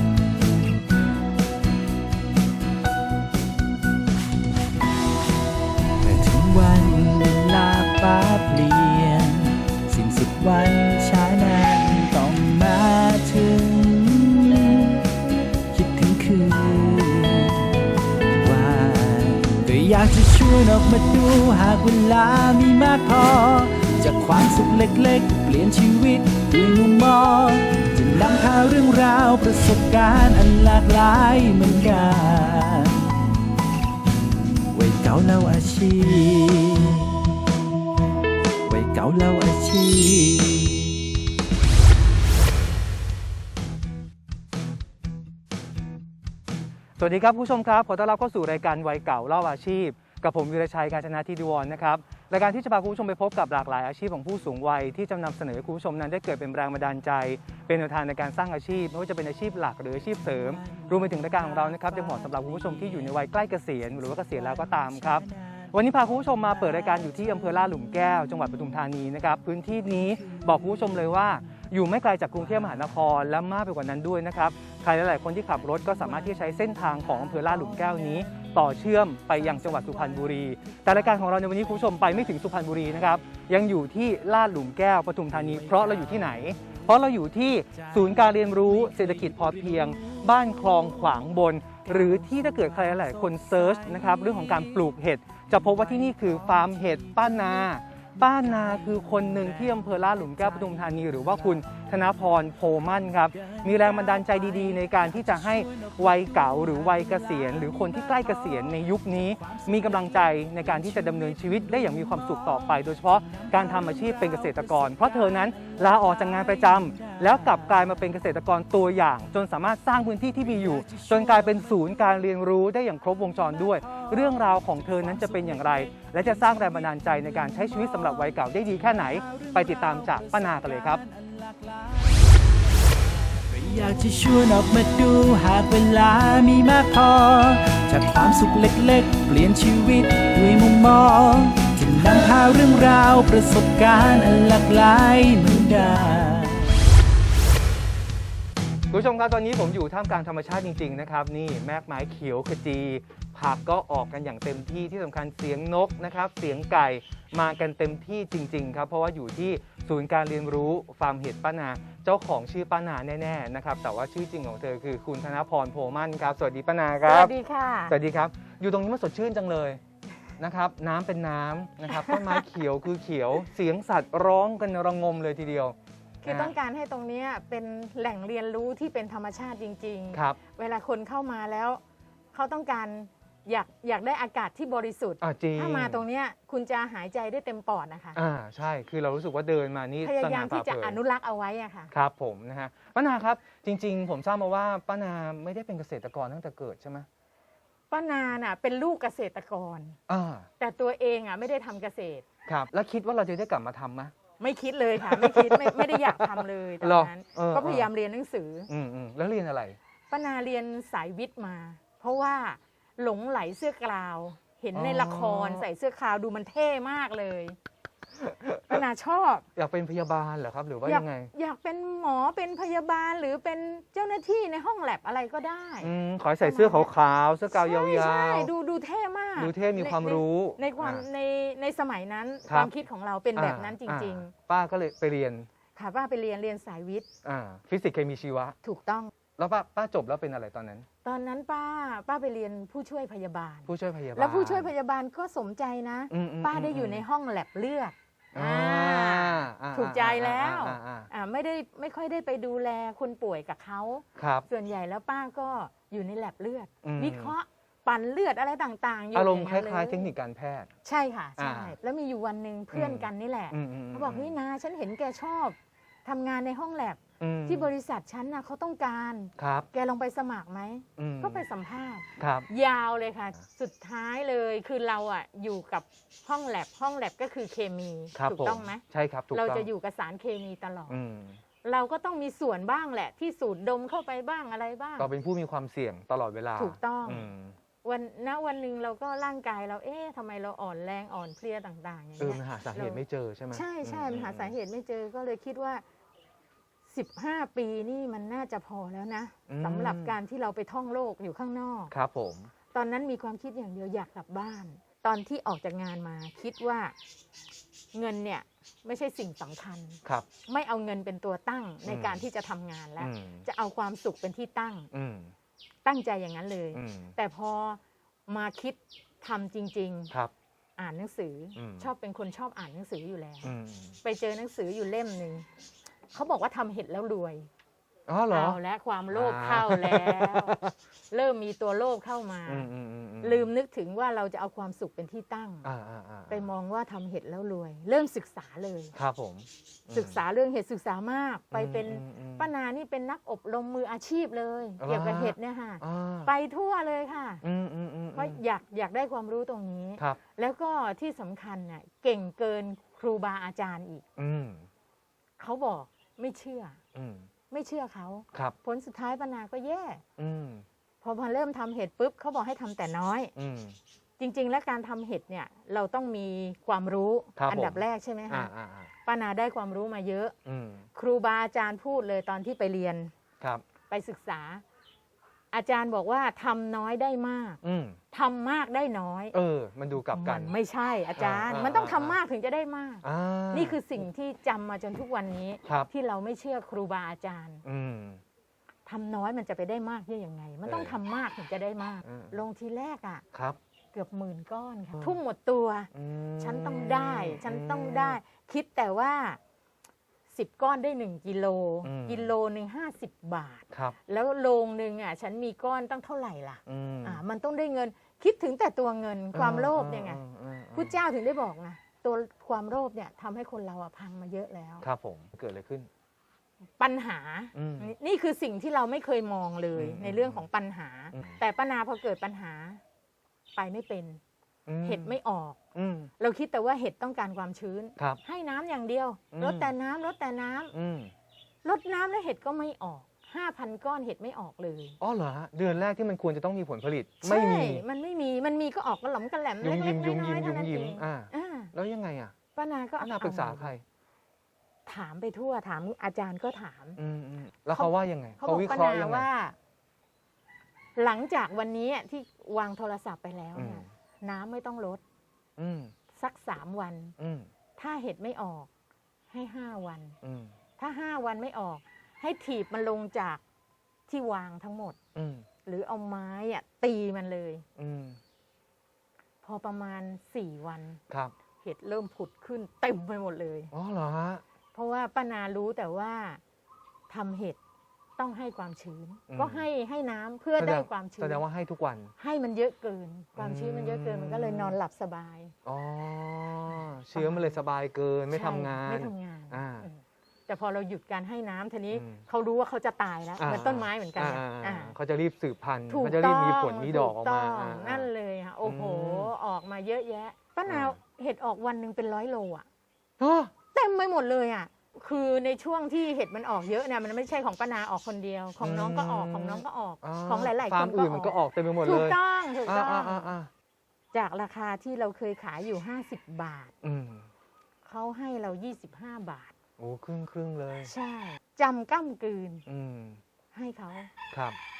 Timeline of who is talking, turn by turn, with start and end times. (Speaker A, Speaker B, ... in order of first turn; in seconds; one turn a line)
Speaker A: 6.0-15.0
Speaker A: 15.7-17.7
Speaker A: 18.4-33.1
Speaker A: 34.7-37.2
Speaker A: 38.7-41.0
Speaker B: 47.0-131.0
Speaker A: 60.4-63.2
Speaker A: 64.0-67.8
Speaker A: 70.2-70.9
Speaker A: 72.5-73.0
Speaker A: 75.9-76.3
Speaker A: 76.9-78.5
Speaker A: 79.4-82.1
Speaker A: 85.4-86.8
Speaker A: 87.7-91.2
Speaker A: 91.9-97.5
Speaker A: 98.2-101.8
Speaker A: 103.3-118.1
Speaker A: 120.4-122.1
Speaker A: 123.6-132.7
Speaker A: 133.3-146.8
Speaker B: 148.9-167.3
Speaker C: 167.0-168.0
Speaker B: 167.9-169.8
Speaker B: 170.4-176.5
Speaker C: 171.9-172.4
Speaker C: 176.2-181.8
Speaker B: 180.1-180.4
Speaker C: 182.3-188.2
Speaker B: 185.2-186.0
Speaker B: 188.2-191.0
Speaker C: 190.0-191.9
Speaker B: 191.9-197.1
Speaker C: 197.9-200.0
Speaker B: 200.1-200.5
Speaker C: 200.6-202.3
Speaker B: 202.5-204.1
Speaker C: 204.4-208.7
Speaker B: 205.0-207.9
Speaker B: 208.7-209.8
Speaker C: 210.1-217.6
Speaker B: 214.7-215.7
Speaker B: 218.2-218.8
Speaker C: 218.5-219.5
Speaker B: 219.6-221.3
Speaker C: 220.8-226.9
Speaker B: 225.8-228.5
Speaker C: 227.5-234.3
Speaker B: 229.4-231.1
Speaker B: 232.5-232.7
Speaker B: 233.3-235.5
Speaker C: 235.8-237.1
Speaker B: 237.2-238.6
Speaker C: 238.6-239.1
Speaker B: 239.4-240.9
Speaker C: 241.0-260.1
Speaker B: 243.7-244.7
Speaker B: 246.1-247.0
Speaker B: 248.3-251.1
Speaker B: 254.2-254.5
Speaker B: 256.8-257.3
Speaker B: 259.1-260.7
Speaker C: 260.9-281.0
Speaker B: 261.4-261.8
Speaker B: 262.7-264.3
Speaker B: 267.2-267.7
Speaker B: 269.4-269.7
Speaker B: 271.0-271.4
Speaker B: 272.2-272.5
Speaker B: 278.1-279.7
Speaker B: 280.9-281.4
Speaker C: 281.6-285.1
Speaker B: 285.0-287.6
Speaker C: 286.6-287.3
Speaker C: 287.8-293.0
Speaker B: 292.2-294.5
Speaker C: 293.5-295.8
Speaker C: 296.9-301.9
Speaker B: 299.5-300.2
Speaker B: 301.9-302.5
Speaker C: 302.7-306.9
Speaker C: 307.9-314.9
Speaker B: 311.9-312.2
Speaker B: 313.0-313.4
Speaker B: 314.9-315.3
Speaker C: 315.9-320.1
Speaker B: 316.7-317.1
Speaker C: 320.8-325.5
Speaker B: 321.6-321.9
Speaker B: 323.4-324.0
Speaker C: 326.1-327.5
Speaker B: 328.1-328.6
Speaker C: 328.3-330.5
Speaker B: 329.1-330.7
Speaker C: 331.1-332.7
Speaker B: 332.5-333.5
Speaker C: 333.2-335.7
Speaker B: 335.6-336.5
Speaker C: 336.3-338.9
Speaker B: 338.9-340.2
Speaker C: 339.9-347.4
Speaker B: 341.5-342.5
Speaker B: 344.8-346.3
Speaker B: 347.4-348.4
Speaker C: 348.1-354.0
Speaker B: 354.2-354.7
Speaker C: 355.4-356.8
Speaker B: 356.9-357.3
Speaker C: 357.5-360.0
Speaker B: 360.2-360.6
Speaker C: 361.0-363.3
Speaker B: 363.4-363.8
Speaker C: 364.2-368.5
Speaker B: 367.4-368.9
Speaker C: 369.1-370.4
Speaker B: 370.4-370.9
Speaker C: 370.9-373.1
Speaker C: 373.9-374.6
Speaker C: 375.5-377.6
Speaker B: 377.6-378.0
Speaker C: 378.1-379.4
Speaker B: 379.3-380.5
Speaker C: 380.0-387.6
Speaker B: 381.2-382.1
Speaker B: 383.0-383.8
Speaker B: 387.6-388.2
Speaker C: 388.9-393.2
Speaker B: 390.7-390.9
Speaker B: 392.0-392.4
Speaker B: 393.3-393.6
Speaker C: 393.9-399.4
Speaker B: 395.9-398.2
Speaker C: 400.3-410.2
Speaker B: 401.8-402.3
Speaker B: 403.7-404.0
Speaker B: 406.7-407.2
Speaker B: 409.3-411.0
Speaker C: 410.8-414.9
Speaker B: 414.8-415.9
Speaker C: 416.8-422.8
Speaker B: 417.6-417.9
Speaker B: 419.8-420.4
Speaker B: 421.1-421.4
Speaker C: 423.6-424.2
Speaker B: 424.7-425.1
Speaker C: 424.8-425.6
Speaker B: 425.8-426.1
Speaker C: 426.2-430.7
Speaker B: 429.3-429.7
Speaker B: 430.7-431.1
Speaker C: 431.6-435.0
Speaker B: 435.0-437.8
Speaker C: 437.2-441.7
Speaker B: 439.6-442.3
Speaker C: 442.6-443.7
Speaker B: 443.0-443.8
Speaker C: 444.9-447.0
Speaker B: 447.0-449.3
Speaker C: 447.8-449.6
Speaker C: 451.0-455.0
Speaker B: 453.6-453.9
Speaker B: 455.6-455.9
Speaker C: 456.1-457.1
Speaker B: 457.2-457.5
Speaker C: 457.8-458.7
Speaker C: 459.3-460.2
Speaker B: 460.2-460.5
Speaker C: 460.8-463.4
Speaker C: 464.1-465.0
Speaker B: 465.1-465.5
Speaker C: 465.6-467.6
Speaker B: 467.8-468.2
Speaker C: 469.4-471.0
Speaker C: 471.6-473.7
Speaker B: 473.7-474.4
Speaker C: 474.7-476.4
Speaker C: 477.1-477.6
Speaker C: 478.2-481.4
Speaker B: 479.3-479.6
Speaker B: 480.6-482.1
Speaker C: 482.2-485.5
Speaker B: 483.4-484.8
Speaker B: 485.6-489.9
Speaker C: 487.1-487.6
Speaker C: 488.3-494.9
Speaker B: 491.9-492.2
Speaker B: 493.4-498.1
Speaker C: 495.9-502.7
Speaker B: 498.6-499.3
Speaker B: 500.7-501.0
Speaker B: 503.2-503.5
Speaker C: 503.7-513.3
Speaker B: 508.6-513.5
Speaker C: 514.1-516.7
Speaker B: 516.8-517.3
Speaker C: 517.9-519.5
Speaker B: 519.8-520.9
Speaker C: 520.9-522.6
Speaker B: 522.7-523.2
Speaker C: 523.5-524.1
Speaker B: 524.3-524.6